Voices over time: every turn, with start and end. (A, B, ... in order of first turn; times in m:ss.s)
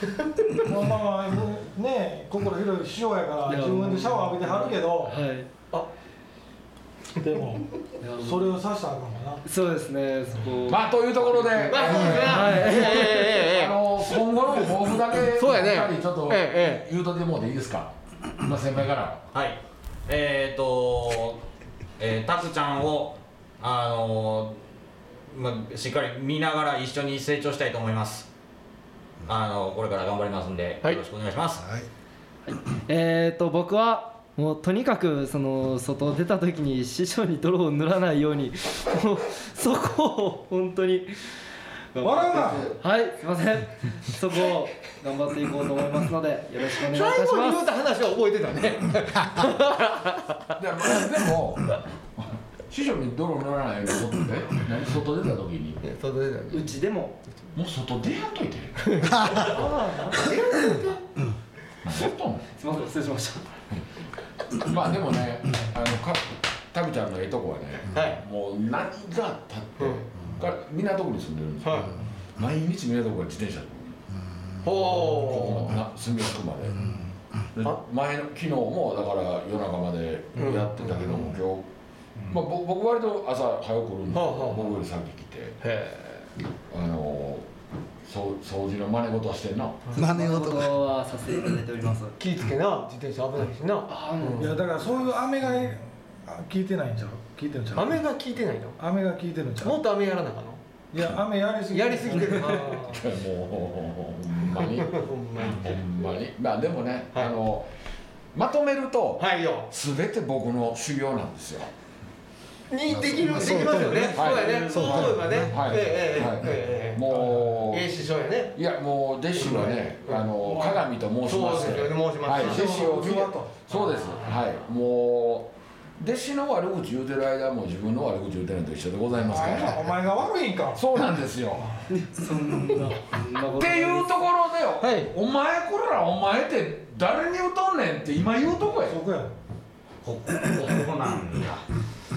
0:00.7-0:05.2 A
0:03.4-0:05.5 B
0:07.2-0:07.6 A
0:08.0-0:08.5 B
0:08.2-0:09.4 A
0:09.4-0:13.4 B
0:10.7-0:19.2 C
0:11.6-0:13.8 D
0:15.3-0:16.8 D
0:19.3-0:21.4 E
0:22.0-0:24.6 E
0:25.3-0:28.3 E
0:29.2-0:31.6 E
0:31.6-0:31.9 F
0:32.4-0:41.4 B
0:41.9-0:47.6 B
0:42.0-0:42.7 A
0:46.8-0:50.3 D
0:50.6-0:55.8 C
0:55.8-0:56.7 D
0:56.5-0:57.2 B
0:57.5-0:58.9 C
0:58.8-1:01.0 D
0:59.4-1:00.2 B
1:01.8-1:02.5 C
1:02.6-1:03.5 B
1:04.5-1:14.0 C
1:07.9-1:08.2 D
1:11.6-1:12.0 D
1:14.6-1:15.7 D
1:15.0-1:16.9 C
1:16.8-1:17.0 F
1:17.5-1:21.7 C
1:20.4-1:20.8 D
1:22.3-1:25.6 C
1:24.1-1:24.8 D
1:25.6-1:26.3 D
1:26.7-1:27.4 C
1:28.0-1:29.8 C
1:29.9-1:30.8 F
1:30.0-1:32.1 B
1:32.2-1:34.5 D
1:33.9-1:35.1 B
1:34.4-1:38.0 A
1:37.7-1:38.8 D
1:38.8-1:39.8 A
1:39.6-1:40.6 D
1:40.9-1:42.6 A
1:41.7-1:43.0 D
1:42.8-1:47.7 C
1:44.6-1:45.8 D
1:48.3-1:51.7 C
1:49.2-1:49.7 D
1:52.7-1:57.1 D
1:52.9-1:55.6 F
1:54.1-1:57.9 C
1:57.1-1:57.5 A
1:57.7-1:58.6 D
1:58.5-2:09.8 C
1:59.4-2:00.3 D
2:00.4-2:00.8 A
2:01.2-2:02.6 D
2:02.3-2:03.7 A
2:03.7-2:04.4 D
2:09.3-2:10.8 A
2:10.8-2:11.7 C
2:11.6-2:11.9 A
2:11.9-2:14.3 B
2:13.6-2:19.0 C
2:14.8-2:15.1 D
2:18.8-2:19.4 A
2:20.0-2:21.6 E